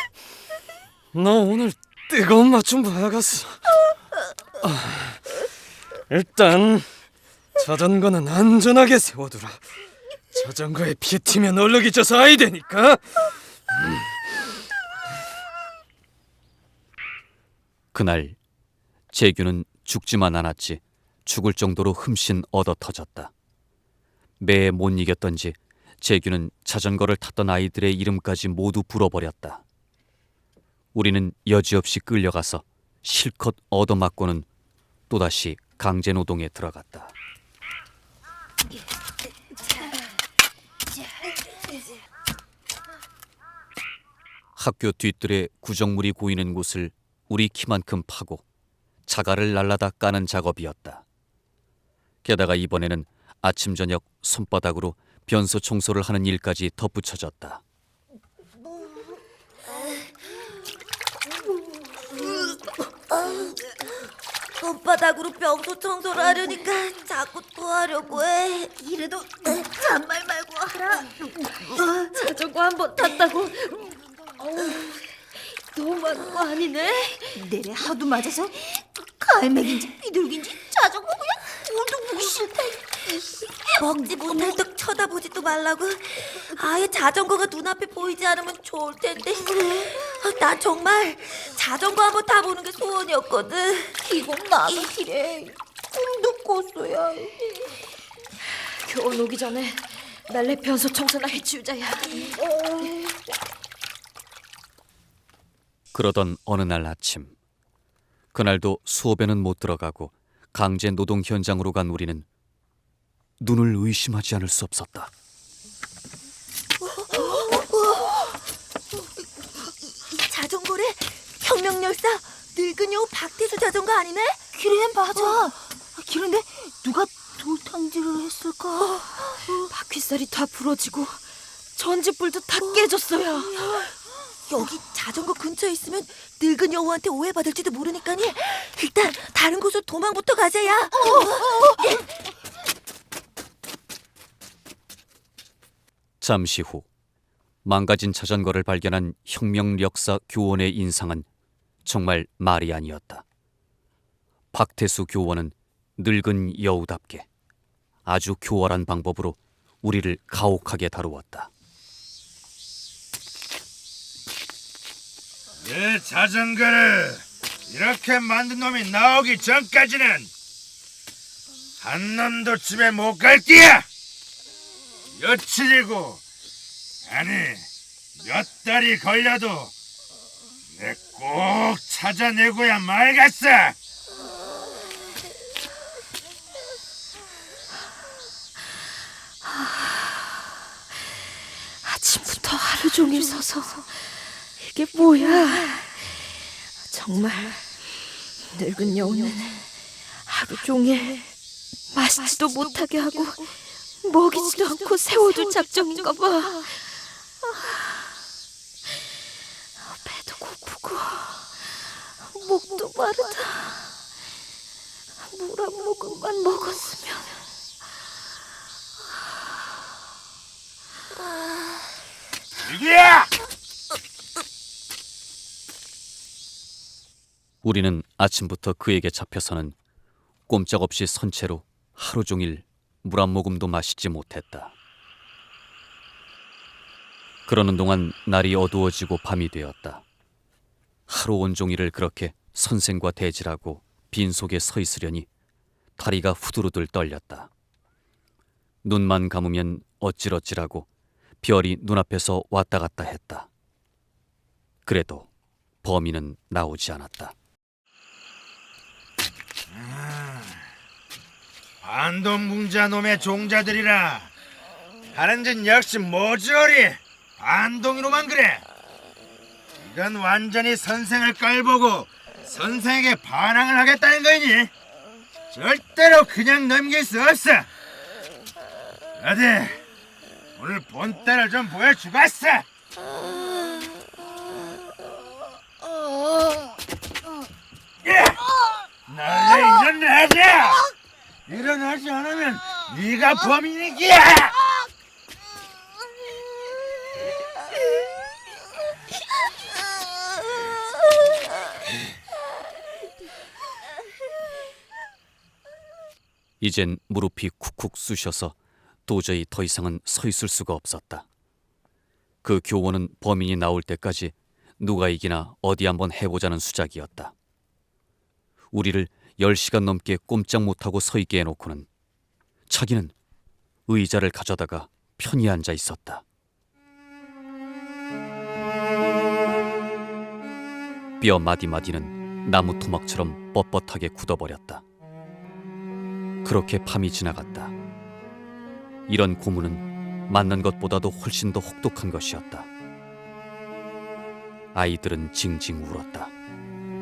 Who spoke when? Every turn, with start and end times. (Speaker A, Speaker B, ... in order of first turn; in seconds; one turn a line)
Speaker A: 1.1-3.6
Speaker A: 4.6-5.2
Speaker A: 6.1-6.9
Speaker A: 7.6-9.6
Speaker A: 10.3-13.3
Speaker B: 17.9-18.4
Speaker B: 19.1-23.3
Speaker B: 24.4-29.6
Speaker B: 30.9-34.5
Speaker B: 35.1-37.1
Speaker B: 44.6-48.4
Speaker B: 49.1-51.0
Speaker B: 52.2-57.6
Speaker C: 59.7-60.0
Speaker C: 62.1-63.7
Speaker C: 64.6-68.8
Speaker D: 68.9-71.0
Speaker C: 69.5-72.0
Speaker D: 71.8-72.1
Speaker E: 72.1-73.9
Speaker E: 74.4-77.3
Speaker D: 77.3-84.6
Speaker C: 83.8-94.0
Speaker D: 94.0-97.8
Speaker C: 94.7-95.0
Speaker E: 98.8-102.2
Speaker D: 102.3-102.8
Speaker B: 105.9-107.4
Speaker B: 108.3-112.2
Speaker B: 113.4-115.1
Speaker C: 116.9-118.3
Speaker D: 117.2-117.6
Speaker C: 119.8-124.4
Speaker D: 124.5-129.1
Speaker E: 129.5-131.2
Speaker E: 131.8-133.7
Speaker C: 133.3-133.8
Speaker C: 134.5-142.1
Speaker B: 146.2-146.9
Speaker B: 147.6-151.3
Speaker B: 151.8-153.2
Speaker B: 154.5-157.3
Speaker B: 158.1-161.5
Speaker F: 165.6-170.3
Speaker F: 171.8-173.8
Speaker F: 175.2-176.2
Speaker F: 177.1-177.7
Speaker F: 178.2-179.7
Speaker F: 180.7-183.8
Speaker E: 189.5-189.9
Speaker E: 191.8-196.1
Speaker E: 196.9-197.6
Speaker E: 198.4-199.7
Speaker E: 200.2-201.3
Speaker E: 201.9-206.8
Speaker E: 210.0-211.6
Speaker E: 212.3-213.8
Speaker E: 215.3-217.4
Speaker F: 222.7-223.3
Speaker B: 227.6-229.8
Speaker B: 230.5-234.7
Speaker B: 237.5-240.0
Speaker B: 241.1-245.3
Speaker B: 246.0-247.5
Speaker B: 248.8-250.9
Speaker B: 251.4-253.5
Speaker B: 254.9-255.3
Speaker B: 255.8-257.4
Speaker F: 259.7-260.6
Speaker F: 261.8-264.3
Speaker F: 265.1-268.6
Speaker F: 269.8-274.7
Speaker F: 275.5-277.7
Speaker F: 279.2-279.8
Speaker F: 280.6-282.6
Speaker F: 288.0-288.4
Speaker F: 289.1-290.8
Speaker F: 291.5-294.6
Speaker B: 306.6-311.2
Speaker B: 312.4-317.3
Speaker B: 318.7-321.9
Speaker B: 322.7-323.1
Speaker B: 323.9-326.2
Speaker B: 331.2-334.8
Speaker B: 336.4-337.7
Speaker B: 339.1-342.7
Speaker B: 344.7-346.3